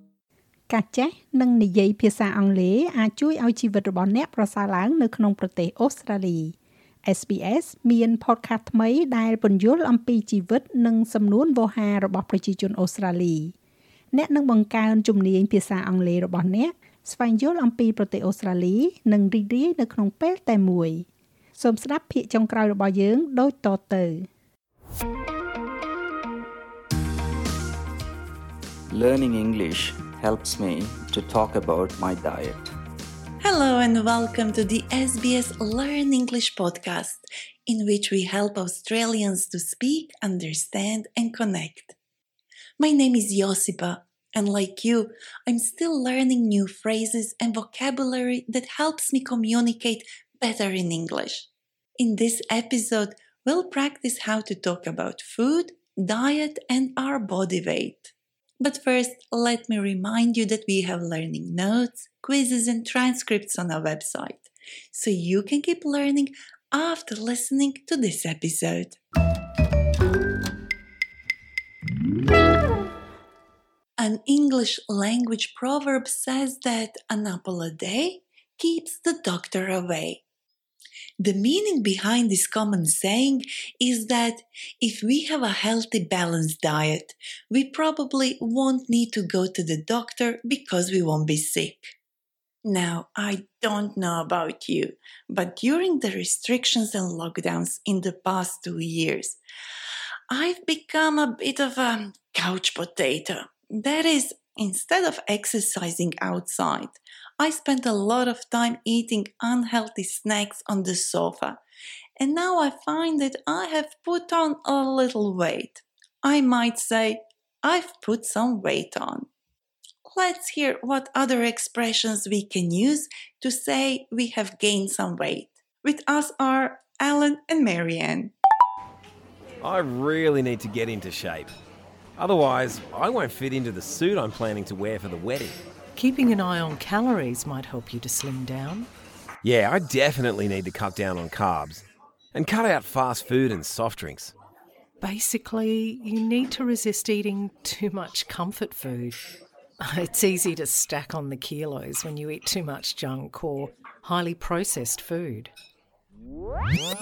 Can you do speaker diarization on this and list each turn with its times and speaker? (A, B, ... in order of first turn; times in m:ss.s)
0:00.7-0:13.5 A
0:14.1-0:24.3 A
0:28.9-0:32.7 B
0:33.4-0:42.0 C
0:42.8-1:09.0 C
1:14.0-1:20.2 C
1:21.2-1:31.9 C
1:32.6-1:39.4 C
1:40.3-1:51.6 C
1:52.2-1:59.3 C
2:00.0-2:08.3 C
2:09.6-2:11.6 D
2:12.2-2:15.6 D
2:16.0-2:18.9 E
2:19.4-2:24.3 D
2:25.0-2:29.2 E
2:29.8-2:35.5 E